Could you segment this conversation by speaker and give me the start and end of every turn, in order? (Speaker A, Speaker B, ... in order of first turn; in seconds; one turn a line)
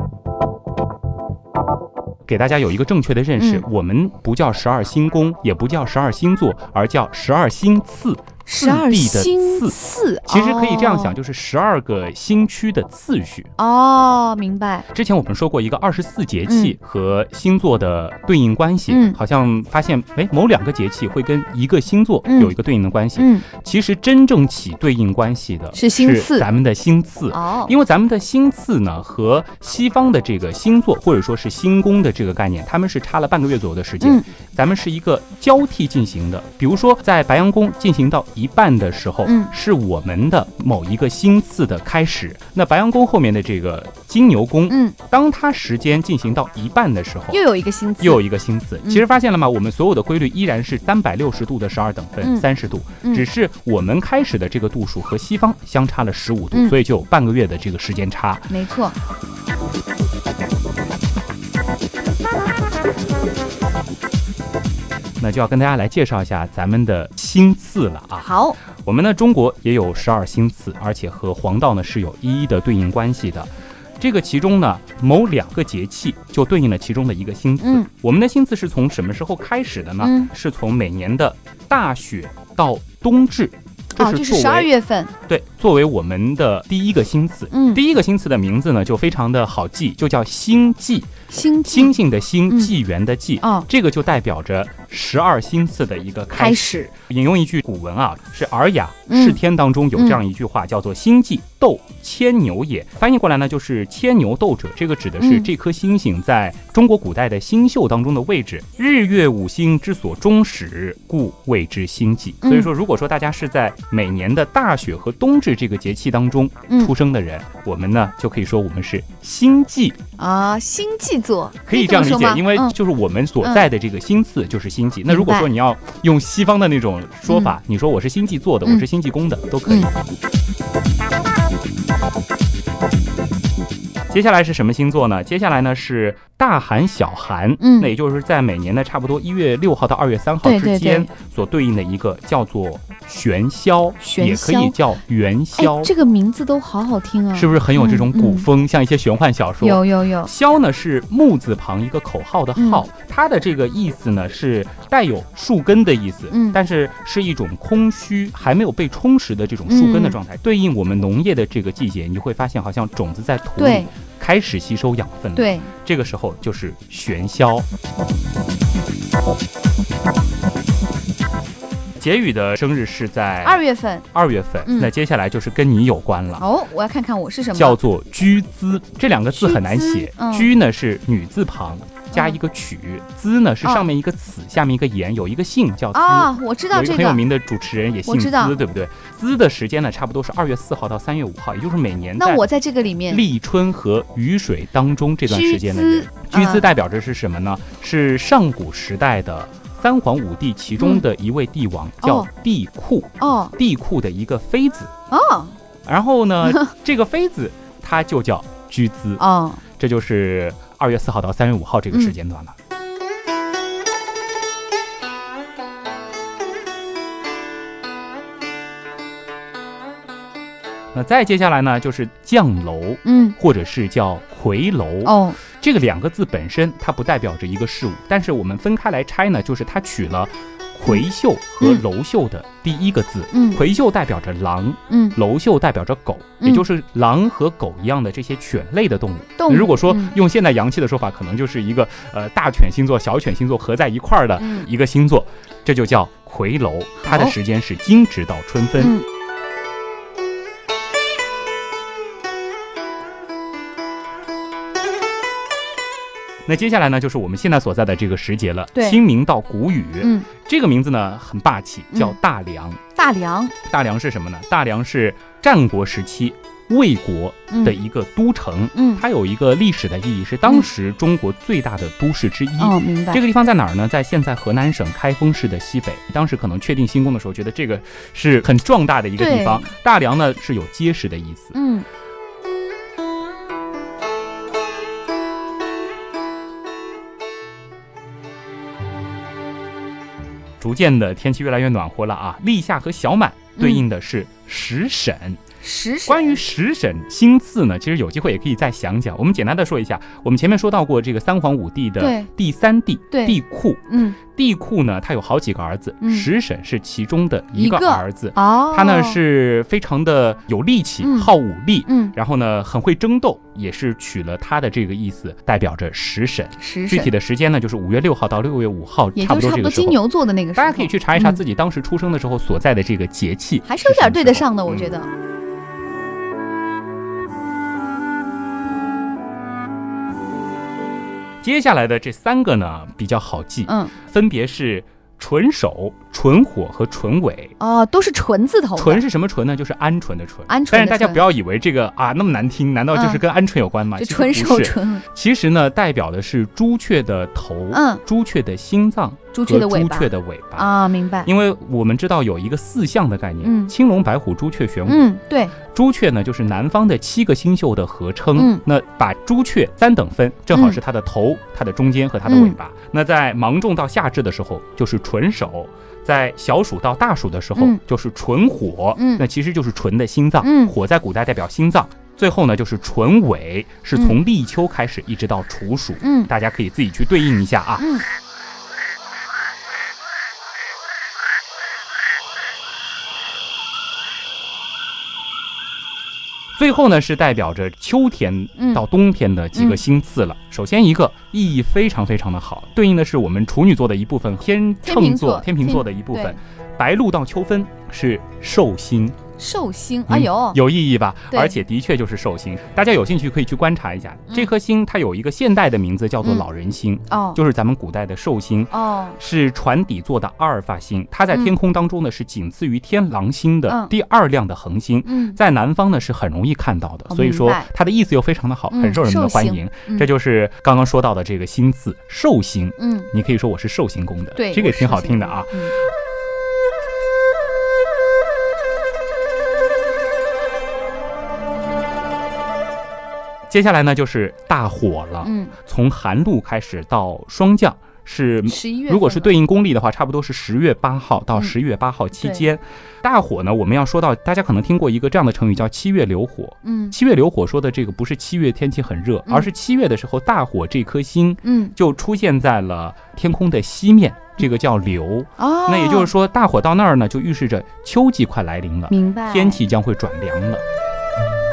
Speaker A: 2.3-9.8
Speaker B: 3.4-3.6
Speaker B: 8.5-11.2
Speaker A: 10.3-13.5
Speaker B: 13.6-14.8
Speaker A: 14.9-47.4
Speaker B: 16.5-16.8
Speaker B: 18.9-19.2
Speaker B: 22.2-22.6
Speaker B: 23.2-23.4
Speaker B: 25.7-26.5
Speaker B: 27.3-27.7
Speaker B: 34.0-34.3
Speaker B: 39.2-39.5
Speaker B: 44.7-45.0
Speaker B: 47.3-48.2
Speaker A: 48.0-58.5
Speaker B: 52.2-52.5
Speaker B: 58.5-59.0
Speaker A: 65.2-84.7
Speaker B: 68.2-68.6
Speaker B: 77.6-77.9
Speaker B: 80.0-80.3
Speaker B: 84.0-85.1
Speaker A: 85.3-91.1
Speaker B: 87.5-87.8
Speaker B: 91.3-91.9
Speaker A: 91.7-120.0
Speaker B: 93.4-93.7
Speaker B: 96.3-96.9
Speaker B: 99.1-99.4
Speaker B: 100.0-100.2
Speaker B: 105.2-105.5
Speaker B: 112.4-112.7
Speaker B: 120.2-122.7
Speaker A: 121.7-129.9
Speaker B: 123.4-123.7
Speaker B: 125.1-125.5
Speaker B: 127.3-127.5
Speaker A: 134.1-145.9
Speaker B: 137.6-137.9
Speaker B: 140.4-141.1
Speaker B: 144.0-144.8
Speaker B: 145.6-148.5
Speaker A: 147.3-167.7
Speaker B: 149.6-150.3
Speaker B: 152.6-152.9
Speaker B: 156.3-156.6
Speaker B: 159.7-160.2
Speaker B: 163.6-163.9
Speaker B: 165.3-165.7
Speaker A: 172.0-176.4
Speaker B: 173.4-174.1
Speaker B: 174.7-174.9
Speaker B: 176.4-177.8
Speaker A: 177.5-192.4
Speaker B: 179.3-180.5
Speaker B: 183.6-183.9
Speaker B: 185.9-187.2
Speaker B: 188.1-188.6
Speaker B: 192.2-193.3
Speaker A: 193.1-204.9
Speaker B: 195.3-196.7
Speaker B: 200.8-201.1
Speaker B: 202.0-202.3
Speaker B: 203.2-203.5
Speaker B: 205.1-205.6
Speaker A: 205.8-209.2
Speaker B: 209.2-209.6
Speaker A: 209.8-212.5
Speaker A: 220.9-249.0
Speaker B: 223.0-223.4
Speaker B: 225.0-225.4
Speaker B: 233.3-233.6
Speaker B: 234.9-235.2
Speaker B: 239.4-240.2
Speaker B: 244.4-244.7
Speaker B: 247.0-247.3
Speaker B: 248.8-249.1
Speaker A: 256.5-262.8
Speaker B: 258.8-259.0
Speaker B: 260.0-260.3
Speaker B: 263.0-263.5
Speaker A: 263.6-281.6
Speaker B: 267.5-267.8
Speaker B: 268.7-269.0
Speaker B: 272.6-273.2
Speaker B: 279.2-279.7
Speaker B: 281.5-281.9
Speaker A: 290.6-295.4
Speaker B: 293.6-293.9
Speaker B: 295.6-296.4
Speaker A: 296.1-320.0
Speaker B: 302.0-302.3
Speaker B: 303.1-304.2
Speaker B: 306.0-306.3
Speaker B: 307.6-309.2
Speaker B: 311.0-311.3
Speaker B: 311.9-312.1
Speaker B: 316.6-317.1
Speaker B: 319.1-321.4
Speaker A: 320.6-324.9
Speaker B: 323.6-325.1
Speaker A: 331.4-337.6
Speaker B: 333.7-333.9
Speaker B: 337.6-339.1
Speaker A: 338.8-350.7
Speaker B: 340.5-341.2
Speaker B: 342.9-343.2
Speaker B: 343.9-345.1
Speaker B: 347.7-348.0
Speaker B: 349.3-351.3
Speaker A: 351.2-355.1
Speaker B: 353.4-353.7
Speaker B: 354.9-355.6
Speaker A: 355.7-377.9
Speaker B: 358.4-358.6
Speaker B: 360.5-360.8
Speaker B: 362.2-362.6
Speaker B: 367.6-367.8
Speaker B: 369.0-369.2
Speaker B: 370.4-370.7
Speaker B: 373.9-374.2
Speaker B: 376.0-376.3
Speaker B: 377.8-378.1
Speaker A: 386.6-399.2
Speaker B: 388.6-388.8
Speaker B: 389.6-389.8
Speaker B: 394.8-396.4
Speaker B: 399.4-400.6
Speaker A: 400.1-425.8
Speaker B: 401.3-401.6
Speaker B: 407.1-407.4
Speaker B: 408.7-409.2
Speaker B: 411.3-411.6
Speaker B: 413.7-413.9
Speaker B: 415.1-415.4
Speaker B: 417.1-417.7
Speaker B: 418.7-420.1
Speaker B: 422.8-423.1
Speaker B: 424.4-425.8
Speaker A: 433.5-460.6
Speaker B: 435.2-435.6
Speaker B: 438.5-439.3
Speaker B: 442.2-442.5
Speaker B: 446.6-446.9
Speaker B: 451.4-451.7
Speaker B: 455.4-456.1
Speaker B: 458.9-459.6